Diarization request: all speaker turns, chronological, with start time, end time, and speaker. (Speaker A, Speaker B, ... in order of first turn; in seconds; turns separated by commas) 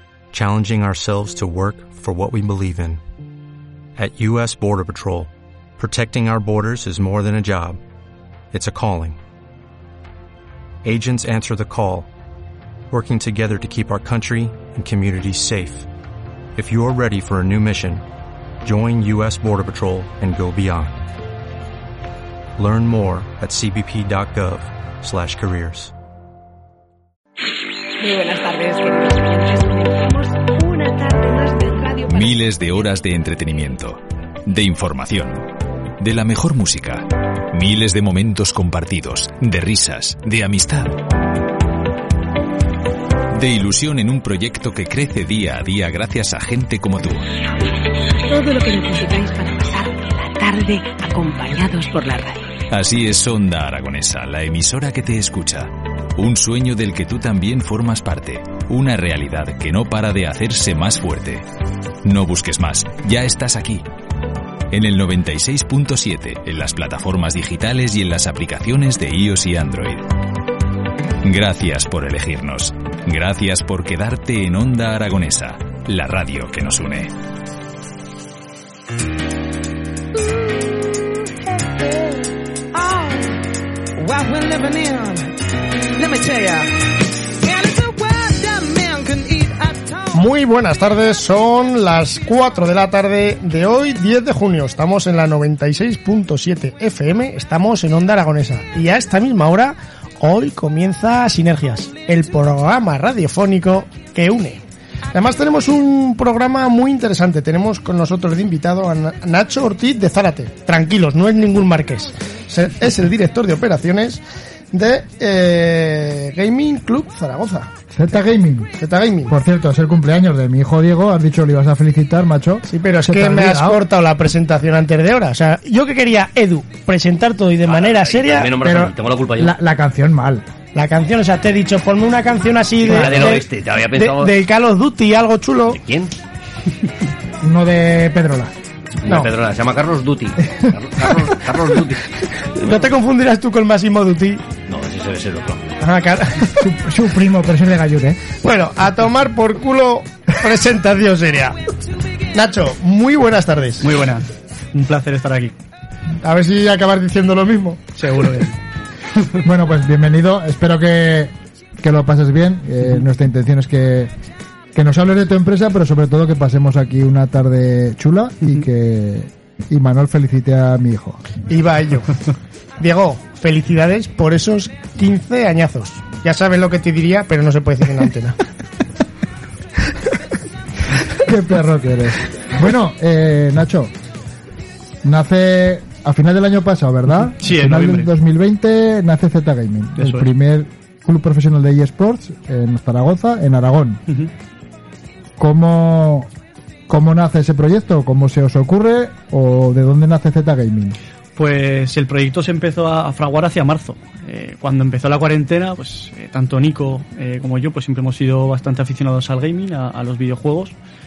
Speaker A: 0.3-3.0, Speaker A: 4.0-7.8, Speaker A: 8.5-9.2, Speaker A: 10.8-12.1, Speaker A: 12.9-15.9, Speaker A: 16.6-18.0, Speaker A: 18.6-21.0, Speaker A: 22.6-25.9, Speaker B: 28.0-32.8, Speaker C: 32.1-35.5, Speaker C: 36.0-41.0, Speaker C: 43.3-47.3, Speaker B: 48.3-52.5, Speaker C: 52.7-61.4, Speaker C: 62.0-63.8, Speaker C: 64.7-70.0, Speaker C: 71.2-77.1, Speaker D: 80.2-83.4, Speaker D: 84.0-85.3, Speaker D: 85.9-90.2, Speaker E: 90.1-104.6, Speaker E: 105.1-114.2, Speaker E: 114.7-117.7, Speaker F: 117.9-118.7, Speaker E: 118.8-119.3, Speaker F: 119.3-123.8, Speaker E: 122.7-128.6, Speaker G: 127.7-129.5, Speaker F: 128.6-130.5, Speaker E: 130.7-135.8, Speaker G: 132.8-134.3, Speaker F: 133.0-133.3, Speaker G: 135.7-136.1, Speaker F: 137.4-138.5, Speaker G: 139.0-142.0, Speaker E: 139.1-139.3, Speaker E: 142.5-144.5, Speaker G: 144.6-145.8, Speaker E: 145.8-146.6, Speaker F: 146.5-148.2, Speaker E: 148.4-151.6, Speaker E: 152.3-153.8, Speaker H: 153.8-155.5, Speaker E: 156.2-157.8, Speaker H: 157.9-158.6, Speaker F: 159.4-164.1, Speaker F: 164.7-171.2, Speaker E: 171.5-172.2, Speaker E: 172.8-178.4, Speaker F: 181.1-183.9, Speaker F: 185.0-194.0, Speaker H: 187.4-188.1, Speaker H: 190.0-190.3, Speaker F: 195.4-196.3, Speaker F: 196.9-201.0, Speaker H: 201.3-210.7